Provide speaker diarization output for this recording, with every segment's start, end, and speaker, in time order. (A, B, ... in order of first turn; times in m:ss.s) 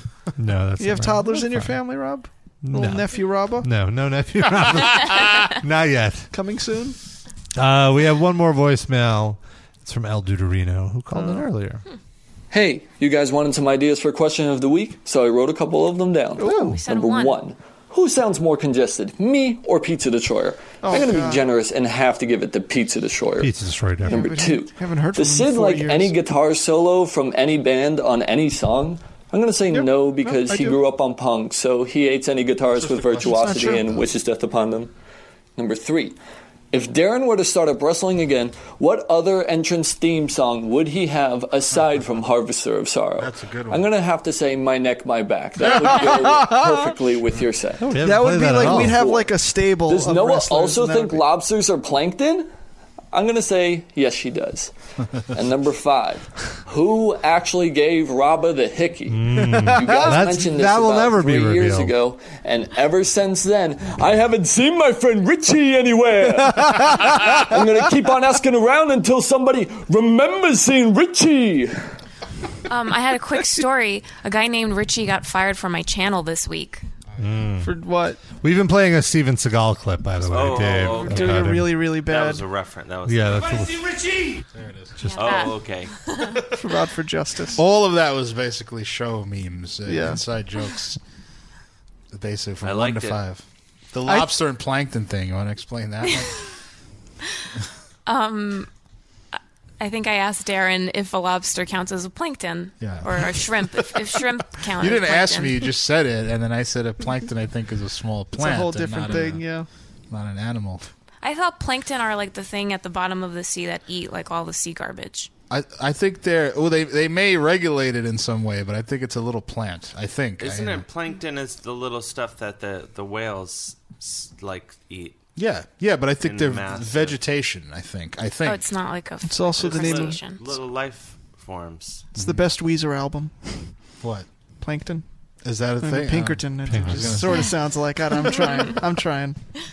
0:00.4-0:01.8 A
0:00.8-0:03.7 B
0:02.6-0:06.3 A
0:06.3-0:07.0 B
0:07.5-0:11.8 A
0:12.5-0:34.9 C
0:16.4-0:16.8 B
0:16.4-0:16.7 A
0:16.6-0:17.4 D
0:20.8-0:21.4 B
0:23.4-0:24.3 A
0:24.0-0:26.1 B
0:29.7-0:30.8 B
0:32.8-0:33.9 E
0:33.1-0:34.0 B
0:35.6-0:36.2 C
0:36.7-0:52.5 C
0:43.2-0:43.9 E
0:45.6-0:46.9 B
0:47.8-0:49.0 A
0:48.0-0:51.2 B
0:53.1-0:54.7 C
0:55.3-1:11.8 C
0:59.1-1:01.9 A
0:59.3-1:00.2 B
1:06.5-1:07.2 B
1:12.7-1:16.8 D
1:17.2-1:17.7 A
1:17.6-1:18.2 B
1:18.4-1:21.7 A
1:20.2-1:23.7 F
1:20.8-1:22.4 B
1:23.0-1:24.1 A
1:24.6-1:24.9 E
1:25.0-1:26.4 D
1:25.1-1:26.0 F
1:26.5-1:27.6 B
1:27.5-1:31.0 E
1:29.9-1:30.2 B
1:32.1-1:36.4 E
1:32.6-1:33.2 F
1:38.0-1:38.7 D
1:39.8-1:45.7 D
1:42.8-1:43.9 E
1:44.8-1:49.4 E
1:48.4-1:49.7 B
1:50.1-1:50.9 E
1:51.2-1:55.3 D
1:55.5-2:00.8 E
2:00.4-2:05.2 F
2:05.4-2:08.6 E
2:06.2-2:07.2 F
2:08.4-2:10.4 D
2:09.2-2:10.2 B
2:09.6-2:12.1 F
2:12.2-2:12.4 E
2:12.2-2:13.3 B
2:14.0-2:14.2 E
2:14.6-2:15.0 B
2:15.4-2:17.5 E
2:15.8-2:19.4 B
2:16.7-2:17.4 A